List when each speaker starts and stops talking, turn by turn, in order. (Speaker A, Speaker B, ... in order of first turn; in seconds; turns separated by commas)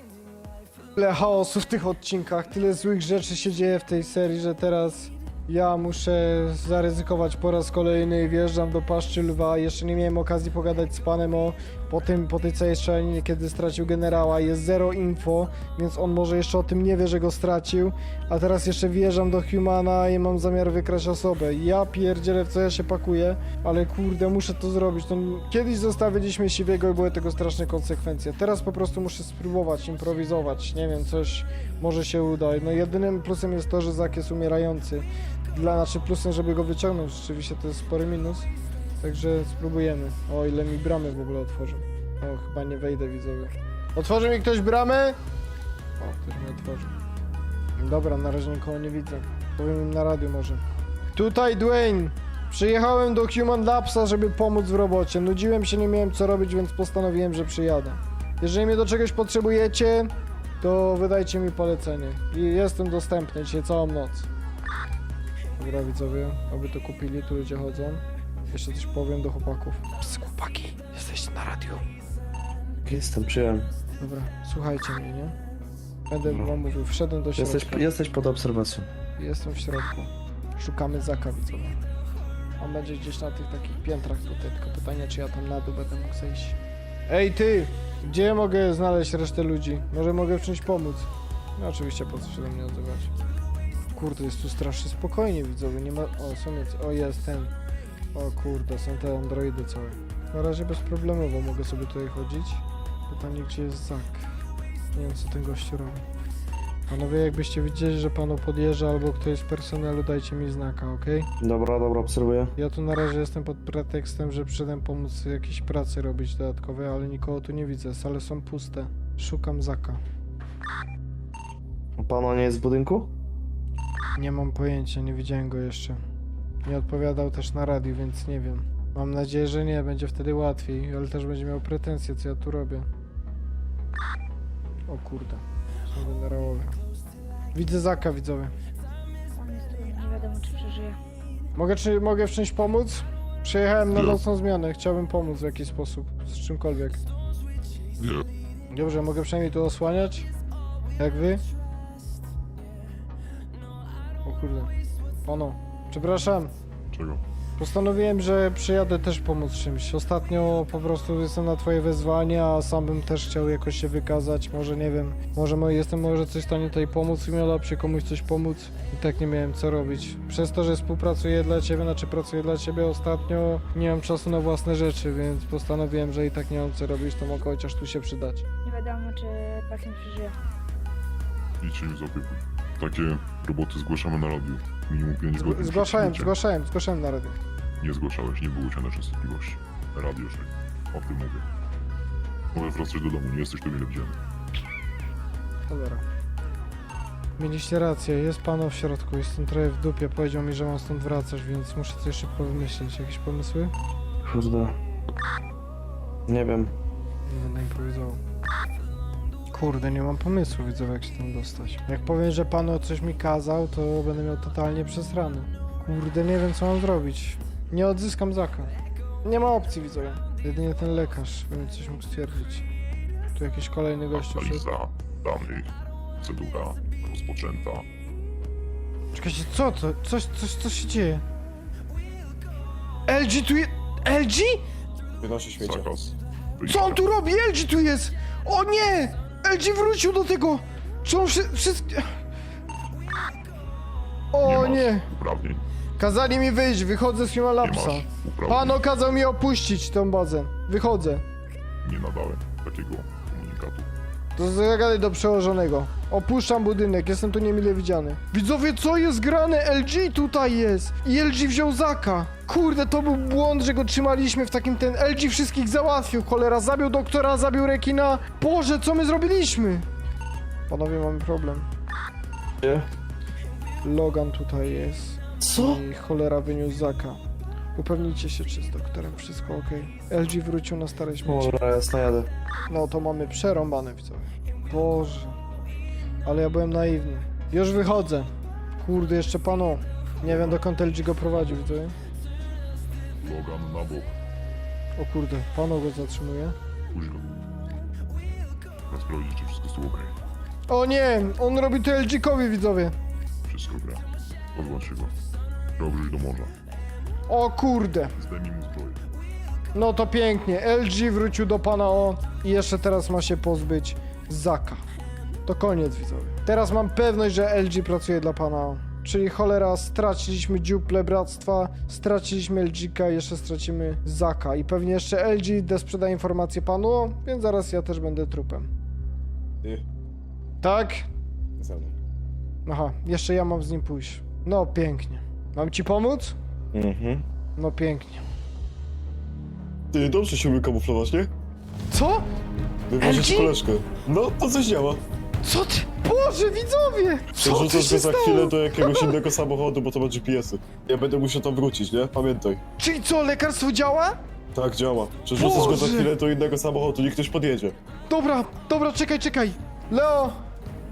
Speaker A: 1.0-38.5, Speaker A: 39.0-45.2, Speaker A: 46.0-46.9, Speaker A: 47.8-50.6, Speaker A: 51.1-64.3, Speaker A: 65.6-71.8, Speaker B: 72.8-73.7, Speaker A: 74.0-75.3, Speaker A: 76.1-77.9, Speaker B: 76.2-76.5, Speaker B: 77.4-78.9, Speaker A: 79.2-81.8, Speaker A: 82.6-86.6, Speaker A: 87.1-93.1, Speaker A: 93.9-97.5, Speaker A: 98.1-104.3, Speaker A: 105.0-106.0, Speaker A: 106.9-111.3, Speaker B: 111.4-112.5, Speaker A: 112.6-120.0, Speaker B: 122.0-123.1, Speaker A: 124.2-126.0, Speaker A: 126.7-132.9, Speaker A: 134.9-136.8, Speaker A: 137.5-138.5, Speaker C: 139.3-141.0, Speaker A: 141.6-147.0, Speaker D: 143.9-144.2, Speaker D: 148.0-148.2, Speaker A: 148.7-150.3, Speaker A: 151.0-151.4, Speaker A: 154.2-154.7, Speaker A: 155.2-156.5, Speaker D: 156.9-157.2, Speaker A: 157.6-178.4, Speaker C: 178.6-180.3, Speaker D: 181.6-186.4, Speaker A: 185.3-187.4, Speaker D: 187.8-191.5, Speaker D: 192.5-194.2, Speaker A: 195.7-196.0, Speaker A: 197.4-203.7, Speaker B: 204.2-204.8, Speaker B: 206.3-206.7, Speaker A: 207.3-208.2, Speaker A: 209.5-218.7, Speaker A: 219.2-222.7, Speaker A: 223.3-224.7, Speaker D: 224.1-227.9, Speaker A: 229.1-231.2, Speaker A: 233.1-234.6, Speaker E: 235.2-236.0, Speaker D: 235.6-237.1, Speaker A: 236.6-242.1, Speaker A: 244.3-245.1, Speaker D: 244.4-245.7, Speaker A: 246.0-251.2, Speaker D: 247.6-248.8, Speaker D: 251.8-253.9, Speaker A: 254.4-269.9, Speaker A: 270.7-271.7, Speaker B: 272.6-272.9, Speaker A: 273.8-277.2, Speaker B: 275.4-275.8, Speaker A: 277.8-281.6, Speaker B: 281.2-282.3, Speaker A: 282.7-285.4, Speaker A: 286.2-291.9, Speaker D: 290.2-290.7, Speaker D: 293.2-294.2, Speaker A: 295.0-296.6, Speaker D: 296.9-297.3, Speaker D: 298.9-300.1, Speaker A: 300.7-302.9, Speaker D: 303.4-305.1, Speaker D: 305.8-306.5, Speaker A: 307.3-308.1, Speaker D: 308.2-309.0, Speaker A: 309.7-314.8, Speaker A: 315.5-328.7, Speaker A: 330.6-331.1, Speaker E: 331.6-332.0, Speaker A: 332.7-336.4, Speaker E: 336.7-337.3, Speaker A: 337.6-338.2, Speaker E: 339.9-341.3, Speaker A: 341.9-342.2, Speaker E: 342.9-345.0, Speaker A: 343.0-343.6, Speaker A: 345.4-349.2, Speaker E: 347.4-352.6, Speaker A: 352.8-354.2, Speaker E: 354.6-357.8, Speaker A: 355.4-356.1, Speaker A: 358.1-360.4